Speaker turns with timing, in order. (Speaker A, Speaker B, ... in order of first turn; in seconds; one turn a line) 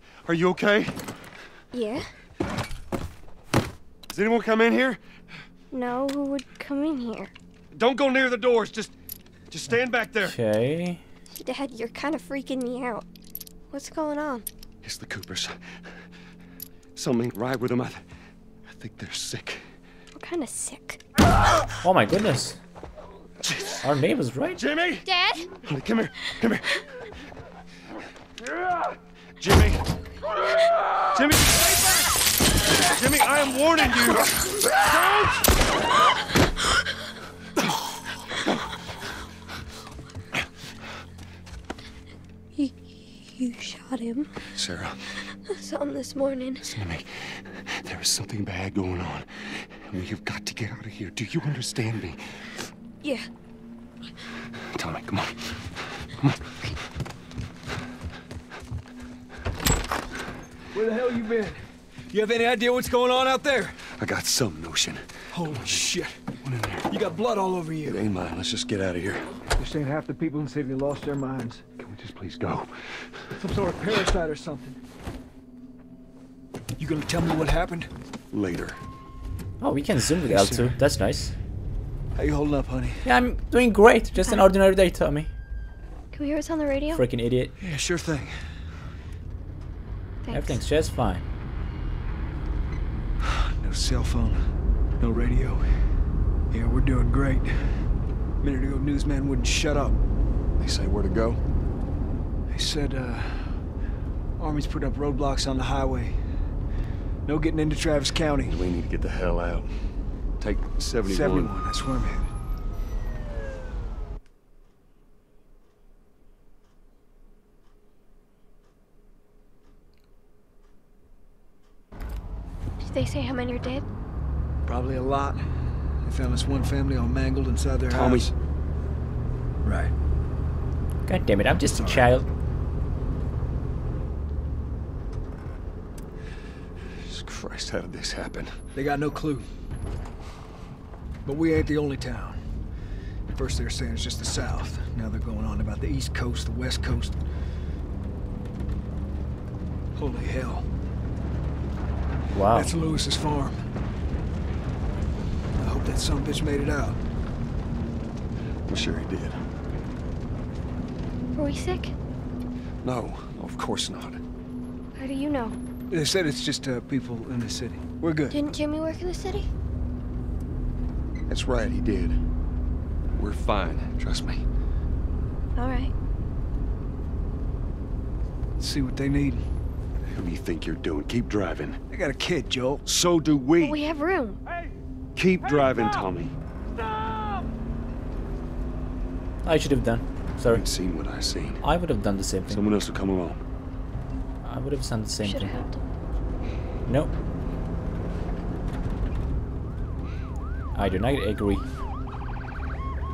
Speaker A: 0.2-1.0
Speaker B: 1.7-2.1
Speaker A: 4.1-5.0
Speaker B: 5.7-7.3
Speaker A: 7.7-8.9
Speaker A: 9.5-10.4
Speaker C: 10.2-11.0
Speaker B: 11.3-13.1
Speaker B: 13.7-14.4
Speaker A: 14.8-15.8
Speaker A: 16.9-18.1
Speaker A: 18.6-19.7
Speaker B: 20.1-21.0
Speaker C: 21.8-22.6
Speaker A: 23.4-23.8
Speaker C: 23.8-24.6
Speaker A: 24.6-26.8
Speaker B: 25.1-25.5
Speaker A: 29.4-29.8
Speaker A: 31.1-31.8
Speaker A: 32.8-34.9
Speaker B: 42.6-44.3
Speaker A: 44.5-45.3
Speaker B: 45.4-46.7
Speaker A: 46.6-52.5
Speaker A: 54.5-56.4
Speaker D: 60.7-61.6
Speaker D: 62.1-63.8
Speaker A: 63.9-65.9
Speaker D: 65.3-66.2
Speaker A: 66.4-66.9
Speaker D: 66.9-68.0
Speaker A: 67.8-69.4
Speaker D: 69.6-71.6
Speaker A: 71.8-73.4
Speaker D: 73.4-74.8
Speaker D: 76.8-77.9
Speaker A: 78.3-78.8
Speaker C: 79.6-81.3
Speaker D: 80.2-80.8
Speaker D: 82.2-83.0
Speaker C: 83.0-85.3
Speaker B: 86.1-87.0
Speaker C: 86.9-87.5
Speaker D: 87.6-88.3
Speaker B: 90.2-90.6
Speaker C: 90.3-91.2
Speaker D: 93.2-94.4
Speaker D: 95.0-95.6
Speaker D: 96.5-97.8
Speaker D: 98.4-100.0
Speaker A: 100.6-101.4
Speaker D: 102.5-103.7
Speaker D: 104.4-106.2
Speaker D: 107.2-108.6
Speaker A: 108.4-111.6
Speaker D: 111.0-112.3
Speaker B: 122.8-123.8
Speaker D: 124.7-125.4
Speaker D: 126.0-128.3
Speaker A: 127.9-128.3
Speaker D: 129.6-129.9
Speaker C: 131.1-132.2
Speaker D: 131.7-132.2
Speaker A: 137.0-138.6
Speaker D: 138.8-139.5
Speaker D: 141.2-142.4
Speaker D: 143.3-147.2
Speaker D: 149.9-150.7
Speaker C: 152.3-152.7
Speaker D: 152.5-153.6
Speaker D: 155.6-157.0
Speaker A: 158.7-159.4
Speaker B: 161.3-161.9
Speaker A: 162.8-164.2
Speaker B: 165.0-165.6
Speaker D: 165.9-168.4
Speaker B: 168.3-169.5
Speaker A: 171.3-172.2
Speaker A: 173.1-174.4
Speaker B: 175.5-175.9
Speaker D: 178.6-179.4
Speaker A: 180.1-181.8
Speaker D: 181.9-182.8
Speaker A: 182.8-183.8
Speaker B: 183.6-184.4
Speaker A: 185.2-186.3
Speaker C: 189.4-190.6
Speaker A: 190.5-191.6
Speaker C: 191.6-192.8
Speaker A: 192.5-193.4
Speaker C: 194.4-195.6
Speaker B: 195.2-195.8
Speaker C: 196.9-197.1
Speaker C: 200.8-201.6